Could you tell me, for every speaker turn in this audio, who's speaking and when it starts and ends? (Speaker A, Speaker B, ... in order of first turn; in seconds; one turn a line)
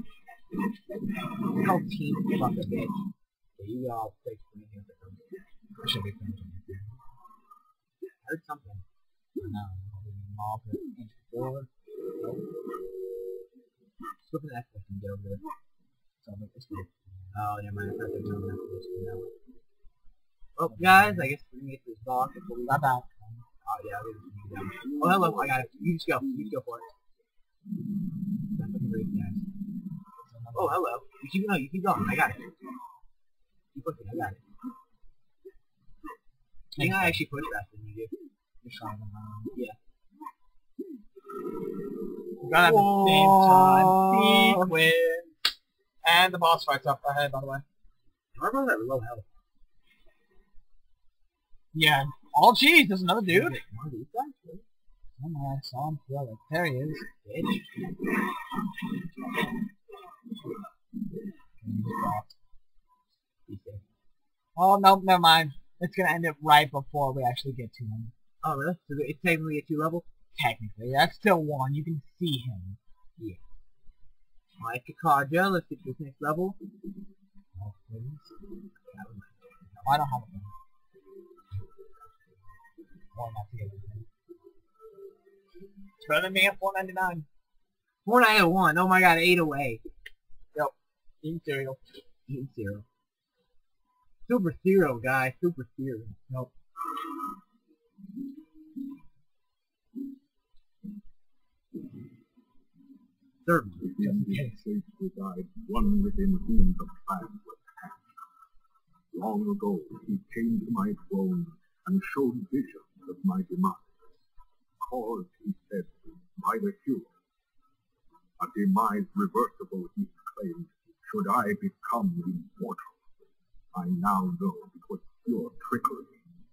Speaker A: 1.6-3.0
Speaker A: 3.6-5.3
Speaker B: 5.8-6.9
Speaker A: 8.2-8.8
Speaker B: 9.4-11.7
Speaker A: 14.2-15.4
Speaker B: 16.2-17.4
Speaker A: 17.3-19.3
Speaker A: 20.6-22.9
Speaker B: 20.7-21.3
Speaker B: 22.7-23.4
Speaker A: 23.6-26.9
Speaker C: 25.0-26.0
Speaker A: 28.5-29.4
Speaker B: 30.2-30.8
Speaker A: 30.5-32.4
Speaker A: 33.7-34.4
Speaker B: 36.8-37.2
Speaker A: 36.8-38.1
Speaker B: 38.6-39.5
Speaker B: 42.4-45.4
Speaker A: 42.6-44.7
Speaker B: 46.0-47.6
Speaker A: 48.3-49.2
Speaker B: 51.7-53.6
Speaker A: 53.3-54.6
Speaker B: 55.2-57.0
Speaker A: 57.2-57.7
Speaker B: 61.6-62.3
Speaker A: 63.5-63.8
Speaker B: 64.5-68.1
Speaker A: 68.4-70.0
Speaker B: 70.3-72.8
Speaker A: 74.6-76.6
Speaker B: 77.6-78.3
Speaker A: 78.8-80.0
Speaker B: 79.8-80.5
Speaker B: 83.1-84.0
Speaker B: 86.0-87.3
Speaker A: 88.0-89.8
Speaker B: 90.5-91.8
Speaker A: 92.3-92.8
Speaker A: 94.2-96.2
Speaker A: 103.4-104.0
Speaker C: 103.8-108.1
Speaker B: 104.0-104.6
Speaker C: 109.1-113.9
Speaker C: 114.8-117.1
Speaker C: 118.4-123.0
Speaker C: 123.7-126.2